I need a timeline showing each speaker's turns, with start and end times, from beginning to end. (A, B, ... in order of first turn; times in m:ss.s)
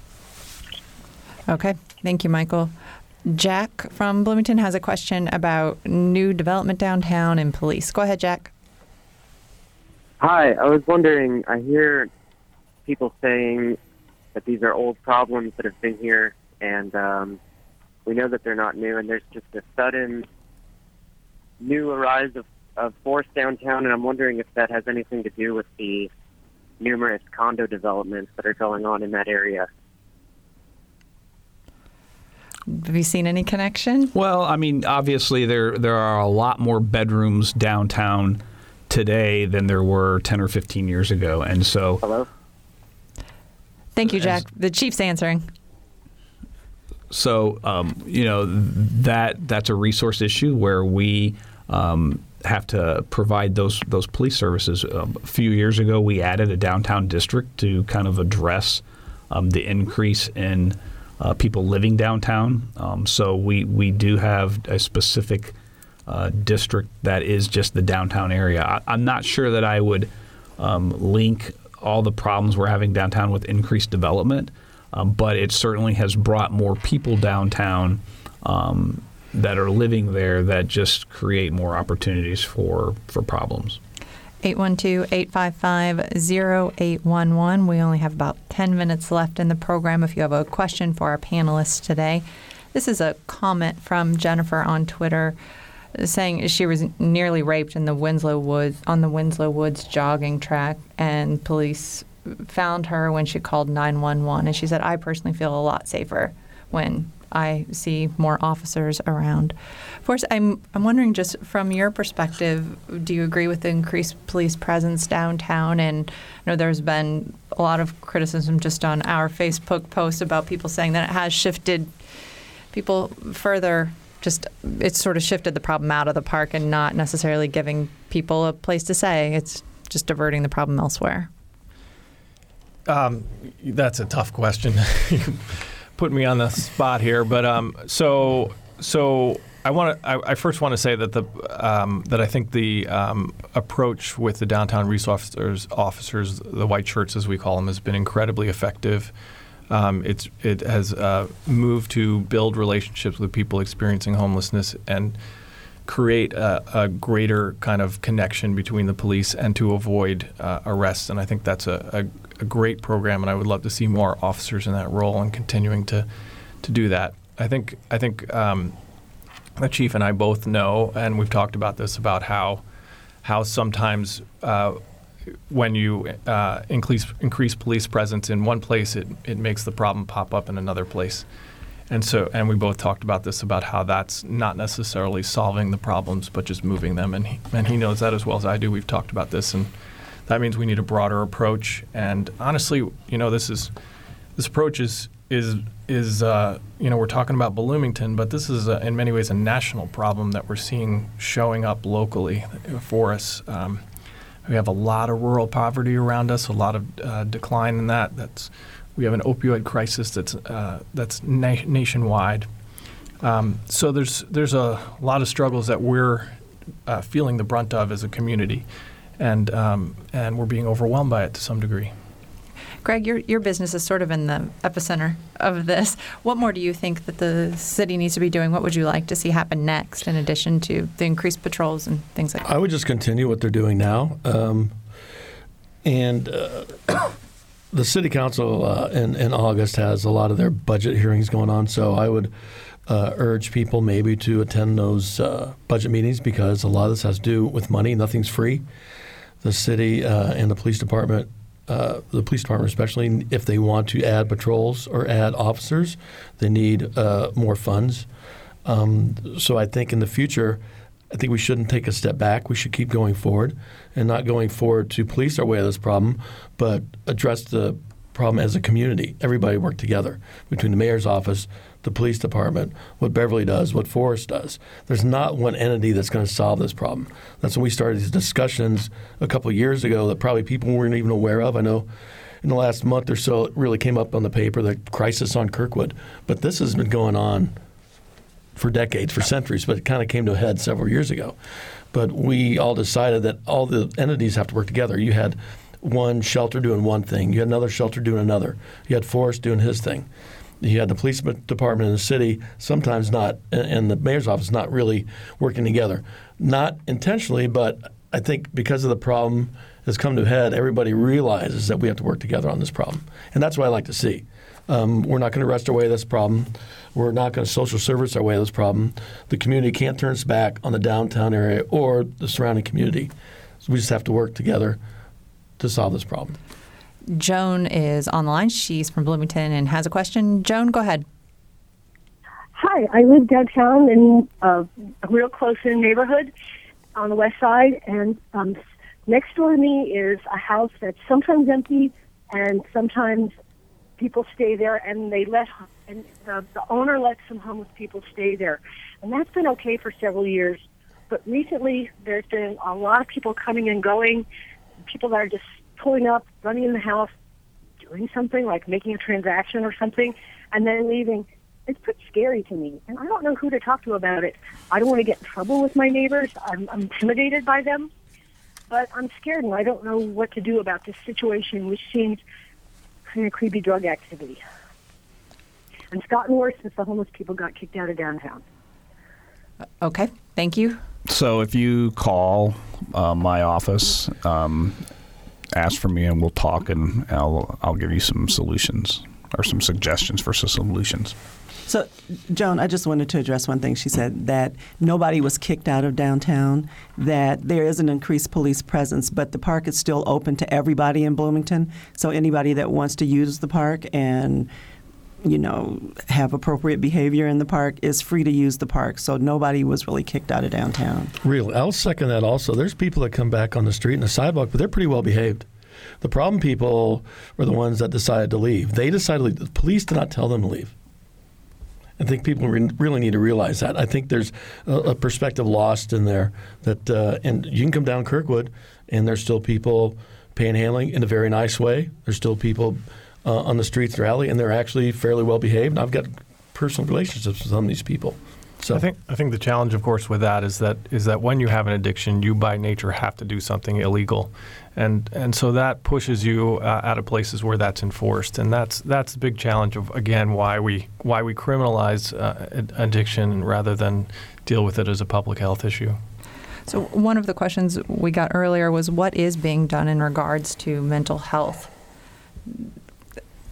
0:01.5-0:02.7 A
0:03.2-0:08.5 A
0:10.2-0:12.1 B
0:12.9-0:13.8 B
0:14.4-0:17.4 B
0:18.1-0:20.3 B
0:21.6-0:26.1 B
0:26.8-0:29.7 B
0:32.7-0:34.1 A
0:34.1-0:42.0 C
0:44.0-0:45.5 A
0:47.1-1:05.6 C
1:06.1-1:23.8 C
1:24.4-1:35.4 A
1:36.0-2:01.9 A
2:02.7-2:11.3 A
2:12.9-2:29.1 D
2:29.7-2:35.2 D
2:35.9-2:46.1 D
2:46.6-2:48.8 D
2:49.6-2:52.6 D
2:53.2-2:54.8 D
2:55.5-3:01.3 D
3:01.9-3:09.7 D
3:10.3-3:13.7 D
3:14.4-3:23.8 D
3:24.4-3:32.5 D
3:33.2-3:38.7 D
3:39.2-3:41.9 D
3:42.8-3:52.4 A
3:52.4-3:54.8 E
3:55.8-3:57.2 E
3:57.7-4:02.3 E
4:02.9-4:08.6 E
4:09.4-4:18.1 E
4:18.6-4:41.9 E
4:42.4-4:47.5 E
4:48.6-4:51.4 E
4:51.9-5:00.1 E
5:00.6-5:24.8 E
5:25.6-5:26.4 E
5:27.1-5:31.0 A
5:32.6-5:36.3 F
5:37.0-5:43.3 F
5:44.0-5:54.3 F
5:54.9-5:57.1 F
5:57.8-6:07.9 F
6:08.7-6:12.2 F
6:13.1-6:14.4 F
6:15.9-6:18.4 F
6:19.8-6:20.8 A
6:21.1-6:24.9 C
6:25.5-6:31.2 C
6:31.7-6:44.5 G
6:45.2-6:51.1 G
6:51.2-6:55.5 E
6:56.0-7:00.7 E
7:02.0-7:18.8 E
7:18.7-7:36.0 D
7:36.7-7:41.7 A